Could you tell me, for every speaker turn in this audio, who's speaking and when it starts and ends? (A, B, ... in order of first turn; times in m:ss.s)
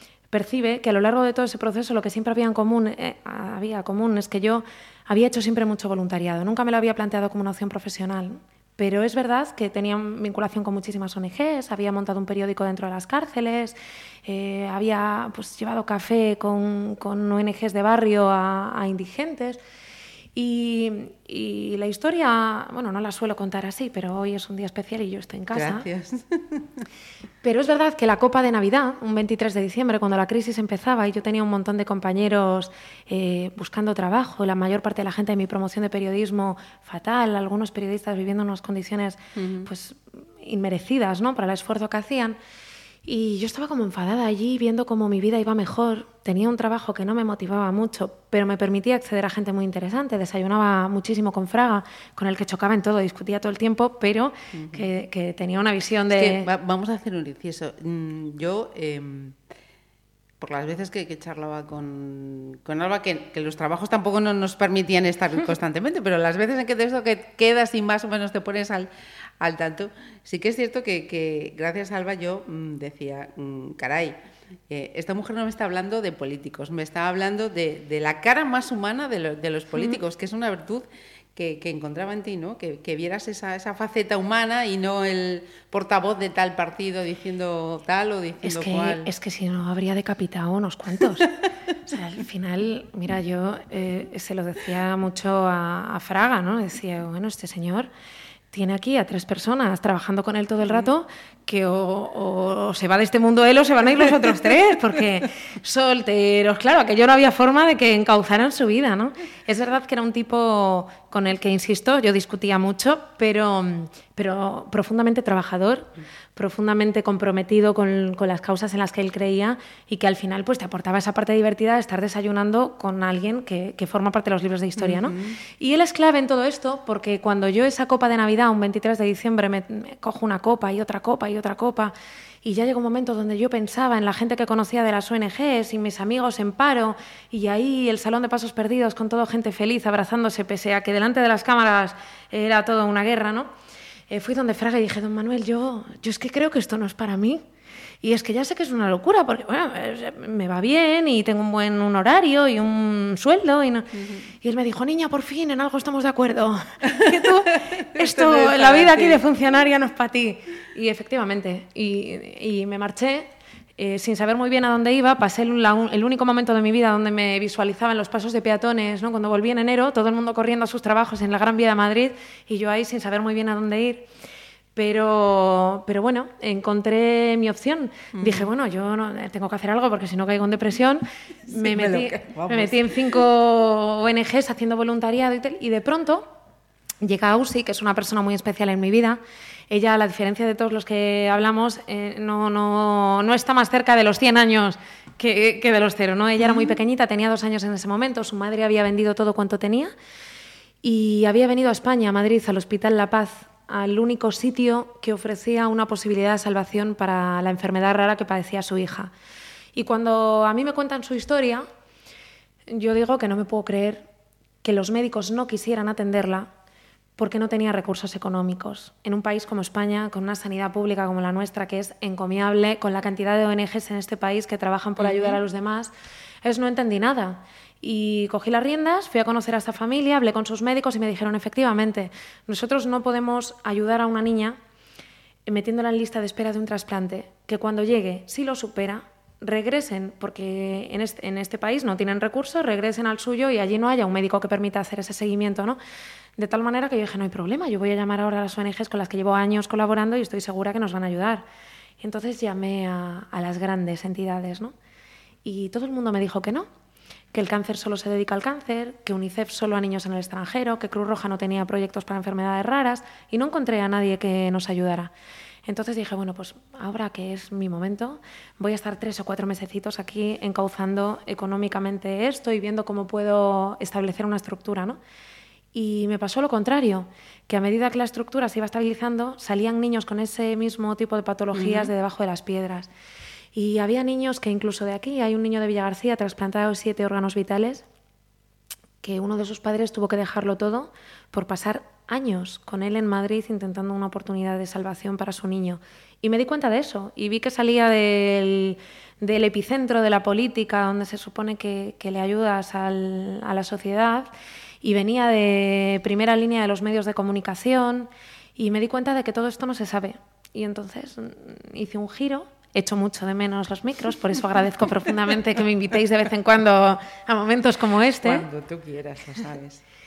0:00.3-0:19.6 A
0:20.3-0:25.8 A
0:25.5-0:26.8 B
0:27.4-0:42.4 A
0:39.4-0:39.7 B
0:43.0-0:56.5 A
0:54.5-0:54.9 B
0:56.1-0:59.4 B
1:00.4-1:14.2 B
1:14.7-1:29.1 B
1:28.4-1:31.4 A
1:31.9-1:37.9 A
1:38.5-2:23.5 A
2:04.8-2:05.4 B
2:24.1-2:27.4 A
2:28.0-2:54.1 A
2:36.8-2:39.2 B
2:54.8-3:06.3 A
2:58.1-2:58.5 B
3:01.5-3:03.2 B
3:07.0-3:19.9 A
3:20.8-3:29.1 A
3:29.8-3:31.6 A
3:32.7-3:34.1 A
3:34.6-3:36.5 A
3:37.2-3:45.9 A
3:45.0-3:45.4 B
3:46.4-3:54.6 A
3:55.5-4:05.8 A
4:06.4-4:11.4 A
4:12.0-4:14.7 A
4:15.4-4:16.7 A
4:17.3-4:25.1 A
4:25.6-4:35.0 A
4:35.7-4:42.9 A
4:41.5-4:41.9 B
4:43.5-4:47.8 A
4:49.0-5:04.3 A
5:04.8-5:18.4 A
5:18.2-5:19.8 B